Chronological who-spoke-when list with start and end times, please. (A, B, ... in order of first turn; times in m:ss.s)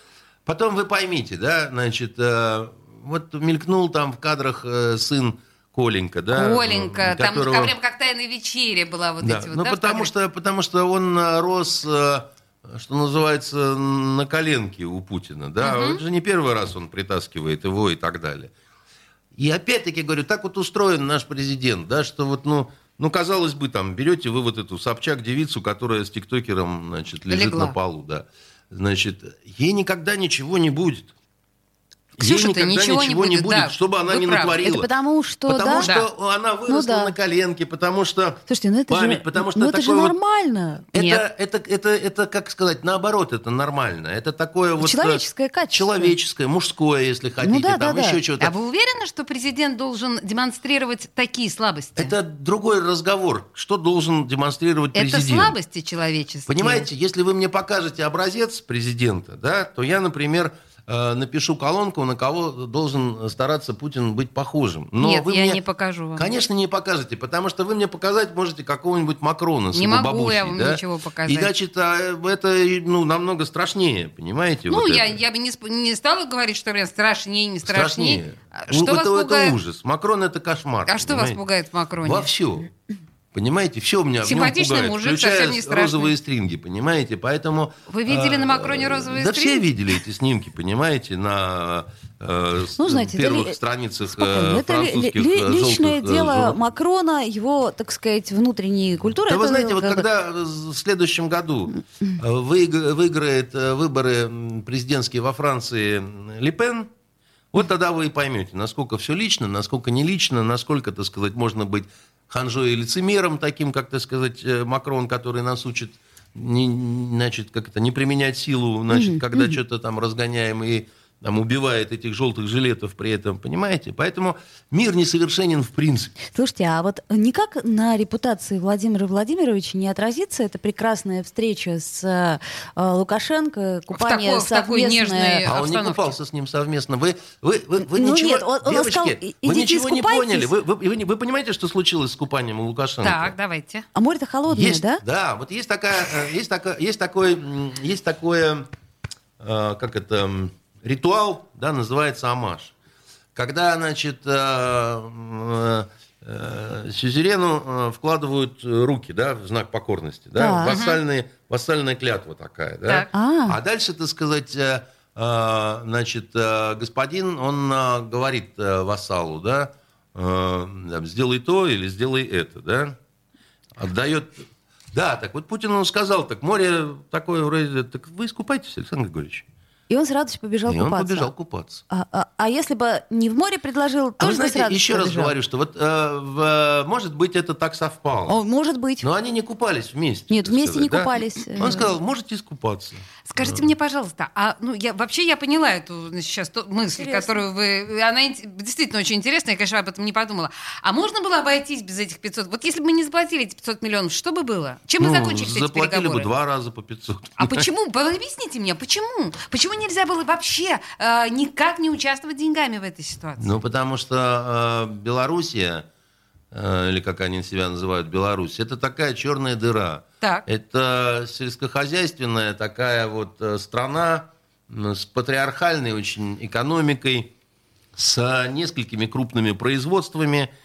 0:00.4-0:07.7 A
0:06.3-0:10.1 B
0:09.2-0:18.5 A
0:15.6-0:16.0 B
0:19.4-0:31.1 A
0:27.3-0:27.8 B
0:32.2-0:34.9 A
0:32.2-0:34.6 B
0:34.6-0:35.9 C
0:35.4-0:40.2 A
0:36.7-0:37.1 C
0:38.5-0:40.9 C
0:40.9-0:45.2 A
0:41.0-0:41.2 B
0:44.8-0:46.1 C
0:45.7-0:48.5 A
0:47.4-0:48.2 C
0:48.4-0:52.1 B
0:52.0-0:55.6 A
0:54.9-0:56.9 B
0:56.5-1:05.6 A
1:05.0-1:06.3 B
1:06.2-1:15.1 A
1:09.7-1:11.5 B
1:14.7-1:19.6 B
1:17.6-1:21.4 A
1:20.9-1:22.3 B
1:22.0-1:22.7 A
1:23.3-1:36.6 A
1:24.2-1:26.1 B
1:27.9-1:29.7 B
1:32.8-1:33.6 C
1:34.1-1:40.0 C
1:39.3-1:46.9 A
1:47.5-2:06.1 A
1:58.9-1:59.6 C
2:06.3-2:15.4 C
2:13.9-2:16.1 B
2:15.4-2:23.3 A
2:17.8-2:20.5 C
2:23.0-2:23.8 B
2:23.9-2:25.0 C
2:24.5-2:28.7 A
2:29.4-2:32.7 A
2:33.3-2:53.0 A
2:40.4-2:40.8 C
2:40.6-2:41.0 B
2:43.1-2:43.6 C
2:53.8-2:59.4 A
2:59.9-3:01.3 C
3:00.7-3:01.8 A
3:01.9-3:05.3 C
3:04.2-3:08.4 A
3:08.3-3:09.1 C
3:09.0-3:13.7 A
3:10.3-3:11.8 C
3:11.6-3:11.9 B
3:13.3-3:26.3 B
3:17.0-3:17.4 C
3:25.0-3:27.6 A
3:27.4-3:33.6 B
3:33.4-3:35.8 A
3:36.5-3:47.3 A
3:48.0-3:50.5 A